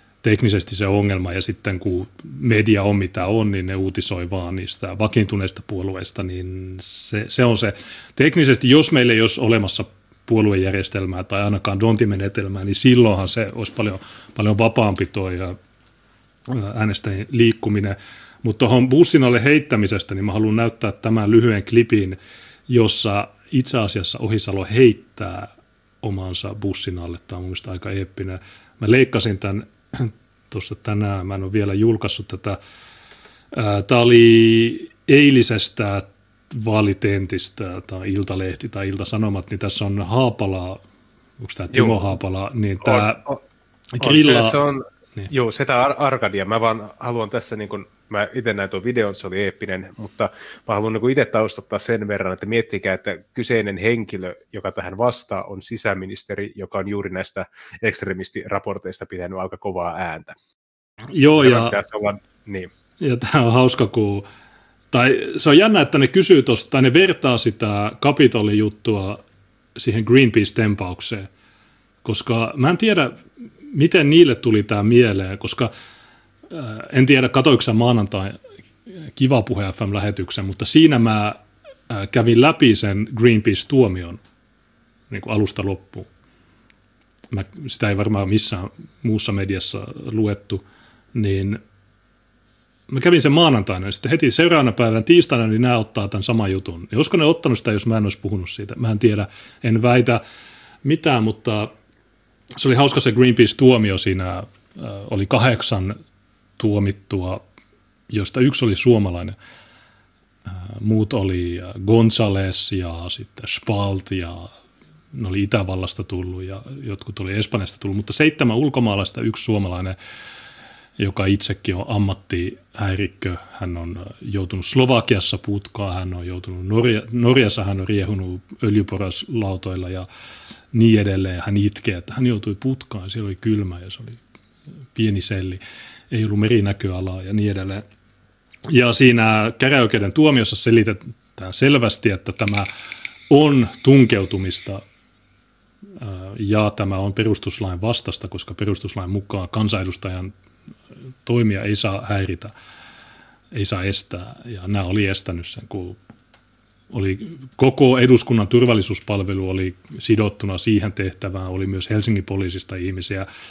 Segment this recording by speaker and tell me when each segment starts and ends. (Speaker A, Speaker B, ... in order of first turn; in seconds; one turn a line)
Speaker A: 0.2-15.6
Speaker A: 16.5-25.5
Speaker A: 26.0-32.6
Speaker A: 33.5-40.8
Speaker A: 41.4-43.2
Speaker B: 41.7-42.0
Speaker B: 42.8-43.4
Speaker A: 44.0-44.6
Speaker B: 44.0-60.3
Speaker A: 61.1-61.8
Speaker B: 61.3-62.7
Speaker A: 63.0-64.2
Speaker A: 64.9-69.2
Speaker A: 69.7-71.3
Speaker A: 72.0-75.7
Speaker A: 76.5-84.2
Speaker A: 85.1-86.1
Speaker A: 87.3-91.6
Speaker A: 92.9-100.2
Speaker A: 100.8-101.7
Speaker A: 102.6-106.0
Speaker A: 106.6-107.4
Speaker A: 108.1-109.3
Speaker A: 110.5-114.5
Speaker A: 115.1-120.0
Speaker A: 121.0-130.1
Speaker A: 130.7-134.2
Speaker A: 134.9-137.8
Speaker A: 138.7-142.7
Speaker A: 143.3-144.8
Speaker A: 145.9-150.3
Speaker A: 151.2-152.5
Speaker A: 153.5-156.0
Speaker A: 156.9-163.3